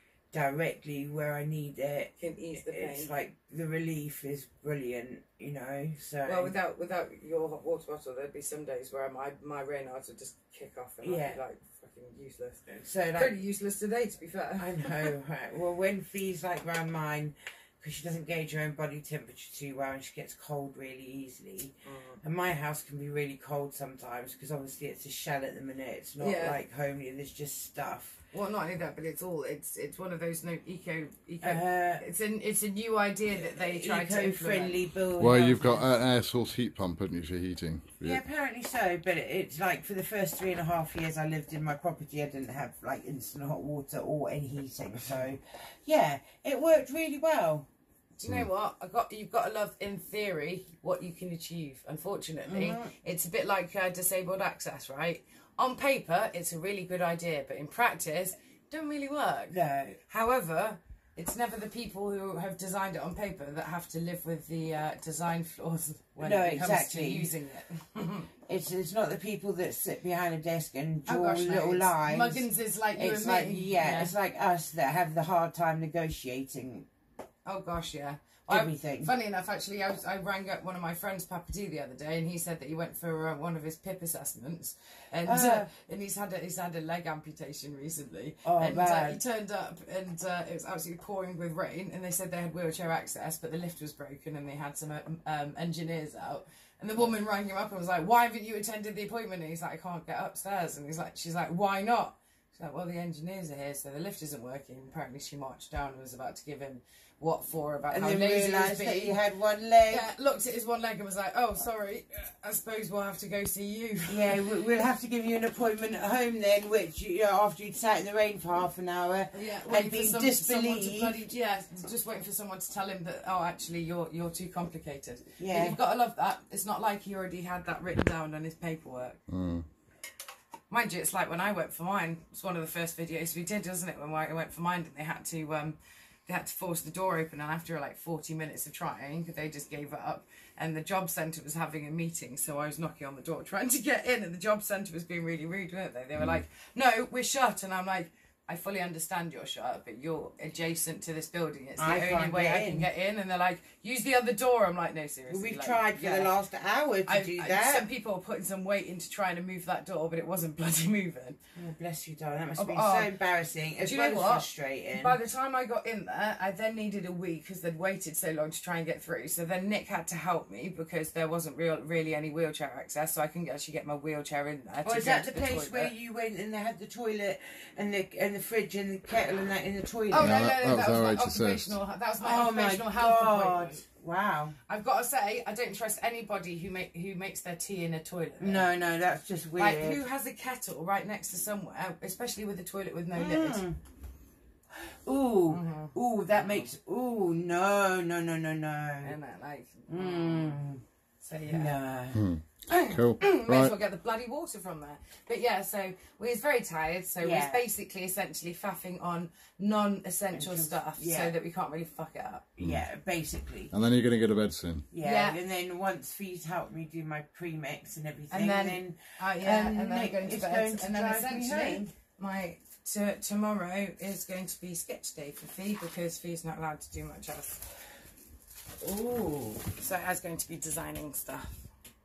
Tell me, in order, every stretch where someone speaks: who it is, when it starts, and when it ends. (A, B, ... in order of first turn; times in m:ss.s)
0:00.3-0:06.5 A
0:02.2-0:03.1 B
0:06.2-0:15.1 B
0:11.0-0:11.4 A
0:12.8-0:13.4 A
0:14.6-0:28.2 A
0:21.8-0:22.2 B
0:26.2-0:26.6 B
0:28.3-0:34.8 B
0:31.4-0:32.0 A
0:33.3-0:35.9 A
0:35.2-0:38.2 C
0:38.0-0:47.7 A
0:48.2-1:08.3 B
0:52.4-0:52.9 A
0:59.5-1:00.0 A
1:06.2-1:07.3 A
1:08.4-1:16.9 A
1:11.0-1:14.1 B
1:17.4-1:49.2 B
1:18.5-1:19.1 A
1:25.2-1:25.7 A
1:28.4-1:29.2 A
1:47.9-1:50.1 A
1:49.9-1:54.4 B
1:54.1-2:01.2 A
1:59.3-2:09.2 B
2:05.4-2:05.8 A
2:09.3-2:09.6 C
2:10.7-2:36.3 B
2:31.8-2:32.9 A
2:35.3-2:37.9 A
2:37.1-2:41.4 B
2:41.6-2:45.2 A
2:42.6-2:43.1 B
2:43.8-2:55.9 B
2:54.8-3:00.4 A
3:00.1-3:03.8 B
3:00.2-3:01.8 C
3:02.2-3:04.6 A
3:04.7-3:08.7 B
3:08.4-3:10.0 A
3:09.6-3:13.6 B
3:13.1-3:13.8 A
3:14.8-3:19.1 A
3:15.5-3:16.7 B
3:19.0-3:20.6 B
3:19.9-3:20.8 A
3:21.2-3:21.7 B
3:21.5-3:22.2 A
3:22.1-3:23.7 C
3:22.7-3:32.4 B
3:27.2-3:27.6 A
3:30.3-3:31.3 A
3:32.6-3:33.7 A
3:33.7-3:34.8 C
3:34.9-3:41.9 A
3:35.0-3:35.4 B
3:38.3-3:47.7 B
3:48.8-3:49.7 A
3:49.8-3:51.7 B